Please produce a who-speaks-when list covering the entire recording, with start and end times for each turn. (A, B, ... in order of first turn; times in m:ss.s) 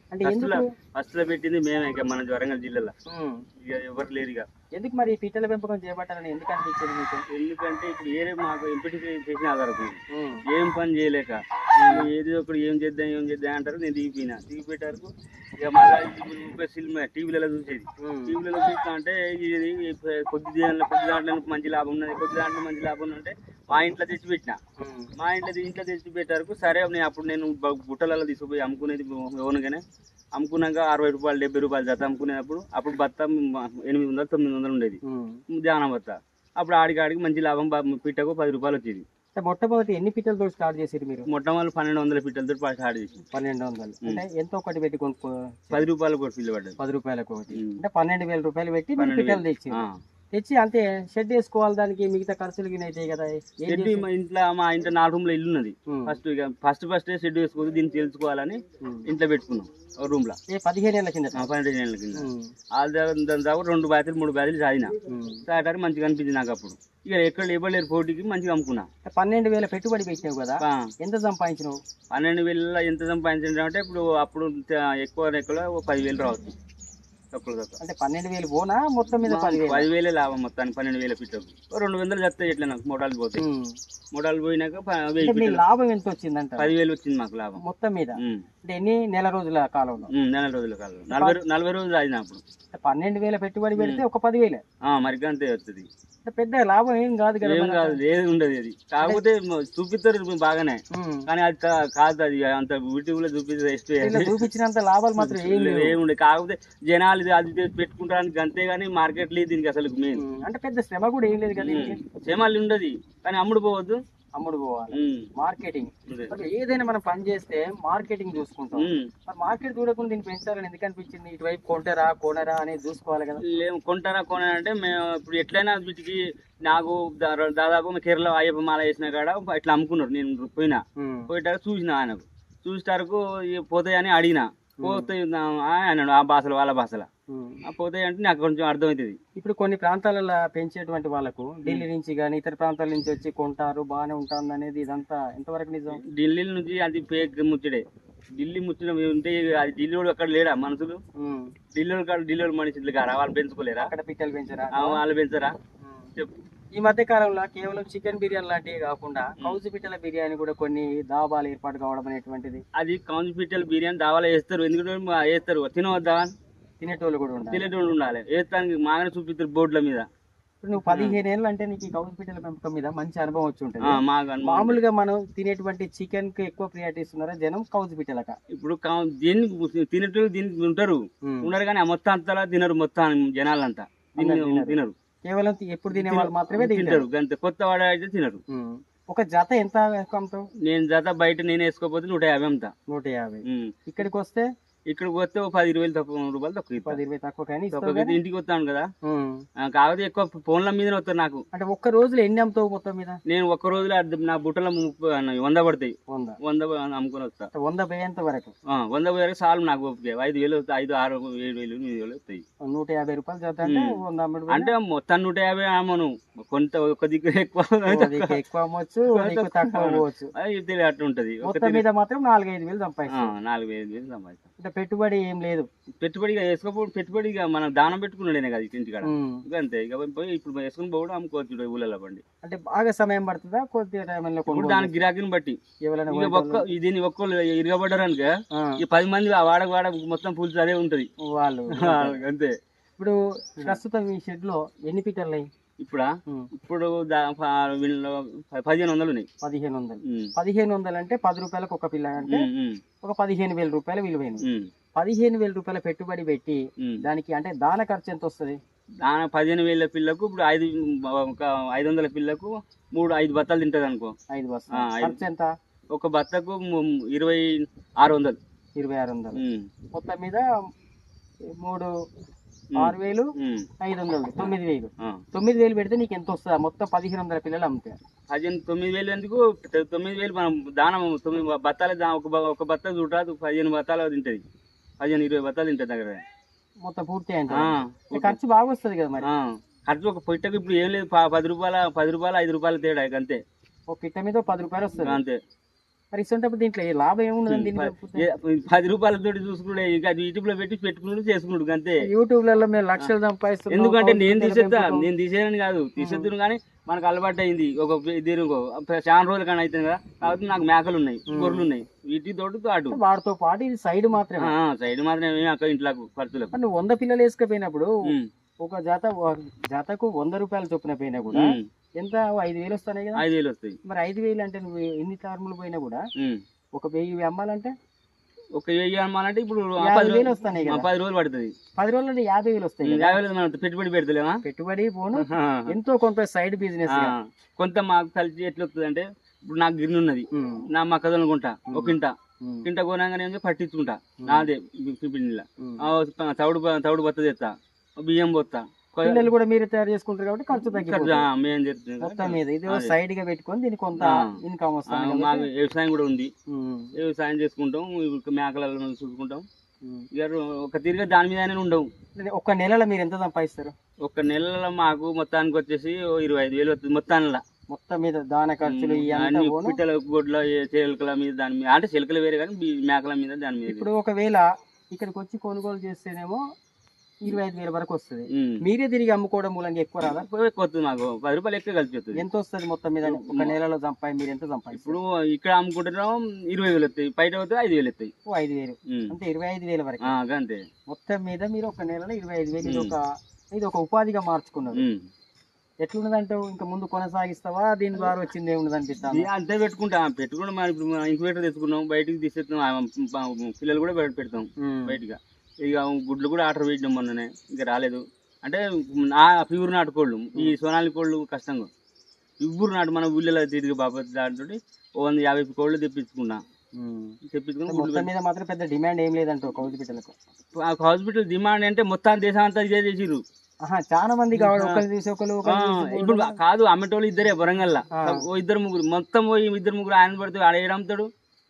0:00.1-0:00.7 A
0:00.2-0:02.9 B
0:03.1-0:03.4 A
0:03.6-0:04.4 B
0:04.8-0:07.2 A
0:07.3-0:24.6 B
0:10.1-0:10.4 A
0:11.8-0:12.1 A
0:18.0-0:18.4 A
0:24.8-0:25.1 A
0:25.2-0:29.8 B
0:30.4-0:35.0 B
0:35.0-0:35.4 A
0:35.5-0:39.0 B
0:39.4-0:41.3 A
0:41.3-0:43.2 B
0:43.3-0:45.8 A
0:45.7-0:46.8 B
0:46.8-0:49.8 A
0:47.5-0:47.8 B
0:49.0-0:49.9 B
0:50.3-0:54.0 A
0:53.7-1:00.4 B
0:55.9-0:56.2 A
1:00.5-1:01.4 A
1:01.4-1:04.9 B
1:02.1-1:02.5 A
1:05.1-1:05.4 A
1:05.5-1:08.9 B
1:09.0-1:11.8 A
1:12.1-1:16.5 B
1:17.3-1:17.8 B
1:17.8-1:19.9 A
1:19.2-1:23.4 B
1:23.4-1:23.7 A
1:24.1-1:25.6 B
1:25.2-1:26.7 A
1:26.6-1:27.6 B
1:27.6-1:30.1 A
1:28.2-1:28.4 B
1:30.1-1:32.4 B
1:31.1-1:31.4 A
1:32.7-1:34.6 A
1:33.8-1:34.0 B
1:34.8-1:35.9 B
1:36.2-1:38.0 A
1:37.4-1:44.4 B
1:40.9-1:41.3 A
1:44.0-1:46.0 A
1:45.2-1:50.2 B
1:50.1-1:52.0 A
1:51.6-1:54.0 B
1:54.4-2:03.4 A
1:54.9-1:55.3 B
1:58.8-1:59.1 B
2:03.4-2:17.1 B
2:11.0-2:11.3 A
2:14.8-2:15.1 A
2:17.3-2:17.6 A
2:17.6-2:19.2 B
2:19.4-2:26.0 A
2:25.9-2:27.8 B
2:28.4-2:31.0 B
2:31.2-2:31.5 A
2:31.7-2:33.9 B
2:33.8-2:35.0 A
2:34.7-2:35.6 B
2:35.8-2:36.1 A
2:36.7-2:42.6 A
2:42.7-2:46.3 B
2:46.8-2:47.7 A
2:47.5-2:50.1 B
2:50.6-2:58.4 A
2:50.8-2:51.2 B
2:53.8-2:54.8 B
2:58.5-3:04.9 B
3:01.2-3:01.5 A
3:04.2-3:07.0 A
3:05.9-3:08.4 B
3:08.5-3:10.4 A
3:10.6-3:12.7 B
3:12.9-3:14.4 A
3:13.4-3:13.7 B
3:14.9-3:17.0 B
3:16.8-3:18.2 A
3:17.7-3:18.9 B
3:19.0-3:19.4 A
3:19.6-3:21.4 B
3:21.5-3:23.2 A
3:23.3-3:27.5 B
3:26.1-3:26.4 A
3:27.5-3:28.5 A
3:28.7-3:32.4 B
3:32.6-3:34.7 A
3:33.7-3:33.9 B
3:34.5-3:38.3 B
3:37.9-3:40.3 A
3:39.1-3:41.8 B
3:41.4-3:43.3 A
3:43.1-3:44.4 B
3:44.6-3:45.7 A
3:46.0-3:52.2 B
3:49.0-3:49.4 A
3:52.4-3:54.9 A
3:54.5-3:55.6 B
3:55.9-3:56.7 A
3:56.1-3:58.3 B
3:58.5-3:58.8 A
3:58.8-4:01.1 B
4:01.2-4:02.2 A
4:01.8-4:02.5 B
4:03.0-4:05.5 A
4:05.8-4:09.3 B
4:09.4-4:12.5 A
4:10.0-4:10.3 B
4:12.2-4:12.8 B
4:13.0-4:14.4 A
4:14.4-4:14.7 B
4:15.0-4:18.6 A
4:19.0-4:24.1 B
4:24.3-4:25.5 A
4:24.7-4:25.2 B
4:25.9-4:28.4 B
4:28.8-4:29.4 A
4:29.4-4:29.6 B
4:29.9-4:30.4 A
4:31.6-4:31.9 A
4:32.7-4:33.7 B
4:32.8-4:38.0 A
4:34.4-4:35.2 B
4:38.3-4:44.4 B
4:45.0-4:46.2 B
4:46.8-4:49.3 A
4:47.5-4:48.4 B
4:49.2-4:53.4 B
4:53.9-4:55.2 A
4:55.0-4:55.4 B
4:56.1-4:58.3 A
4:57.5-5:02.0 B
5:02.0-5:05.1 A
5:03.7-5:13.0 B
5:06.0-5:06.3 A
5:11.3-5:11.7 A
5:12.9-5:14.5 A
5:14.4-5:16.5 B
5:16.5-5:17.9 A
5:18.6-5:23.2 A
5:21.3-5:21.6 B
5:23.2-5:23.8 B
5:23.8-5:26.0 A
5:26.8-5:27.7 A
5:28.6-5:31.5 B
5:29.8-5:30.9 A
5:31.8-5:33.2 A
5:32.8-5:34.4 B
5:34.4-5:37.1 A
5:35.2-5:35.7 B
5:36.9-5:49.3 B
5:40.3-5:40.7 A
5:41.7-5:42.7 A
5:44.2-5:44.5 A
5:49.0-5:51.3 A
5:50.5-5:52.9 B
5:52.0-5:55.5 A
5:54.0-5:54.3 B
5:54.9-5:56.3 B
5:56.5-5:56.9 A
5:57.0-5:59.4 B
6:00.1-6:01.9 B
6:02.2-6:03.7 A
6:04.0-6:07.4 B
6:07.7-6:09.8 A
6:08.6-6:13.9 B
6:13.6-6:16.4 A
6:17.2-6:20.2 A
6:18.3-6:18.6 B
6:20.0-6:22.2 B
6:22.1-6:25.0 A
6:23.0-6:23.5 B
6:24.7-6:28.1 B
6:28.3-6:30.1 A
6:30.0-6:30.6 B
6:30.9-6:34.8 A
6:32.6-6:32.9 B
6:34.7-6:35.1 B
6:35.8-6:39.3 A
6:39.1-6:51.7 B
6:44.6-6:45.0 A
6:52.4-6:56.4 B
6:56.8-6:57.1 A
6:57.3-6:58.1 B
6:57.7-7:00.1 A
7:00.6-7:03.2 B
7:03.7-7:06.4 A
7:04.3-7:04.8 B
7:05.5-7:11.1 B
7:07.9-7:08.2 A